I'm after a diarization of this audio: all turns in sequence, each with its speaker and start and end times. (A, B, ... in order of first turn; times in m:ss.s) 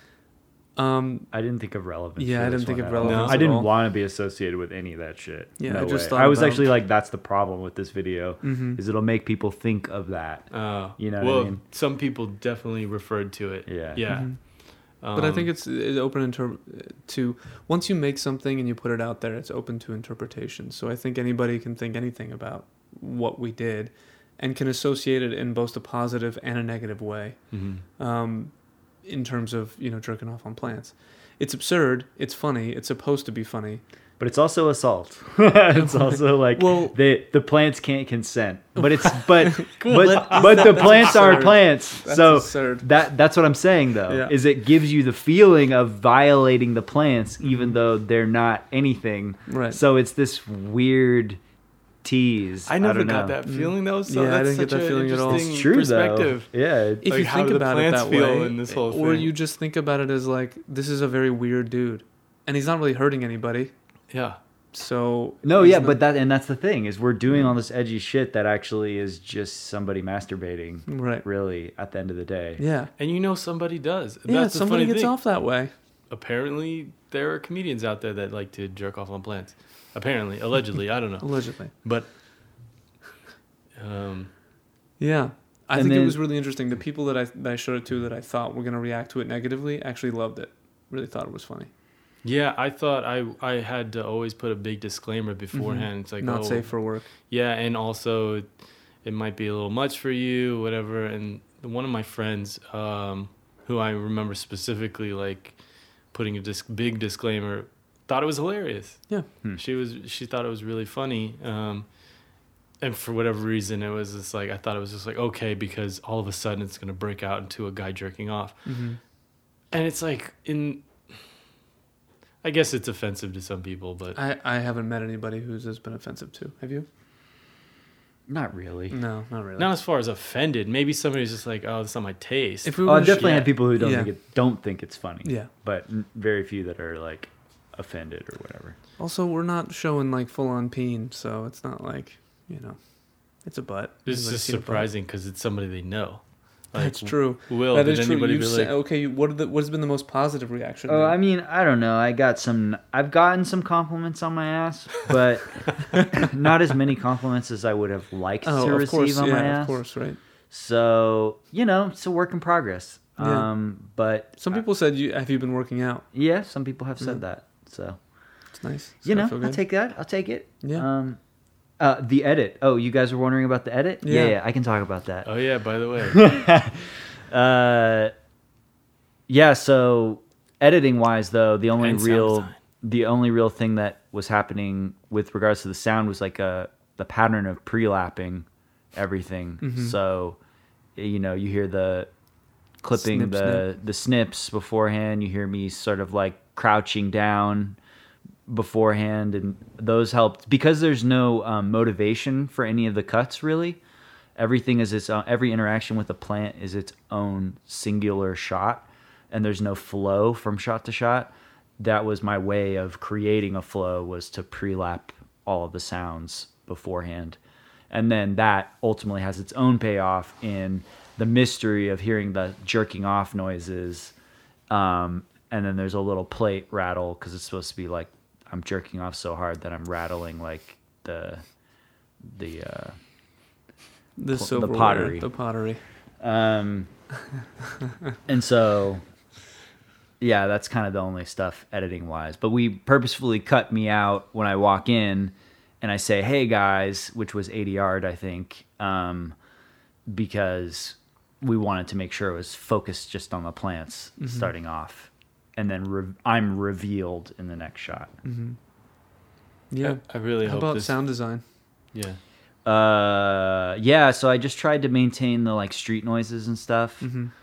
0:00.8-0:01.3 A
0:01.3-0:11.6 B
0:02.2-0:03.7 A
0:03.0-0:03.4 C
0:05.6-0:06.6 A
0:08.4-0:08.8 A
0:10.5-0:15.5 C
0:13.7-0:14.1 B
0:14.1-0:14.4 A
0:15.1-0:33.8 A
0:27.5-0:27.8 C
0:34.2-0:51.4 B
0:35.7-0:37.0 A
0:39.4-0:42.9 A
0:39.8-0:41.5 C
0:44.1-0:44.4 A
0:47.4-0:47.7 A
0:49.5-0:49.8 A
0:52.0-0:53.4 B
0:52.7-0:56.5 C
0:53.4-0:55.4 A
0:55.3-0:57.0 B
0:57.0-1:03.7 A
0:57.0-0:59.3 C
1:04.1-1:04.4 C
1:04.7-1:06.0 A
1:05.4-1:12.6 B
1:10.9-1:11.2 A
1:12.6-1:12.9 A
1:13.0-1:15.2 C
1:14.3-1:15.7 A
1:16.1-1:22.1 C
1:21.2-1:21.7 A
1:23.8-1:24.3 C
1:25.0-1:31.7 A
1:25.8-1:26.2 B
1:32.2-1:38.5 C
1:35.5-1:37.1 A
1:39.0-1:45.6 C
1:46.1-1:51.9 C
1:52.8-1:58.6 C
1:58.6-1:59.0 A
1:59.7-2:01.1 C
2:02.4-2:04.2 C
2:04.2-2:06.9 A
2:08.3-2:09.0 B
2:08.9-2:09.7 A
2:09.6-2:13.5 C
2:12.6-2:14.1 A
2:12.8-2:18.8 B
2:15.2-2:15.5 A
2:19.0-2:22.8 A
2:23.4-2:24.9 A
2:24.1-2:28.8 C
2:26.8-2:31.2 A
2:30.9-2:39.8 B
2:38.4-2:40.2 A
2:40.5-2:44.6 B
2:43.2-2:43.5 A
2:44.4-2:46.1 A
2:46.1-2:48.0 B
2:48.6-2:49.6 A
2:49.0-2:51.2 B
2:51.8-2:55.3 B
2:54.0-2:54.4 A
2:55.2-2:56.3 C
2:56.1-2:58.1 B
2:59.3-3:10.4 B
3:01.8-3:02.5 C
3:09.6-3:10.0 A
3:11.0-3:12.1 B
3:12.8-3:17.8 B
3:12.9-3:13.7 A
3:18.5-3:23.8 B
3:24.4-3:37.4 B
3:37.9-3:44.1 B
3:44.7-3:51.4 B
3:52.2-3:53.0 B
3:54.2-3:55.8 A
3:54.3-3:55.3 B
3:56.2-3:56.9 B
3:58.3-3:59.0 B
4:00.2-4:09.4 B
4:10.1-4:18.1 B
4:14.2-4:14.5 A
4:18.2-4:18.6 A
4:19.7-4:21.4 A
4:19.8-4:21.0 C
4:21.9-4:22.2 C
4:22.6-4:27.1 B
4:27.0-4:27.3 A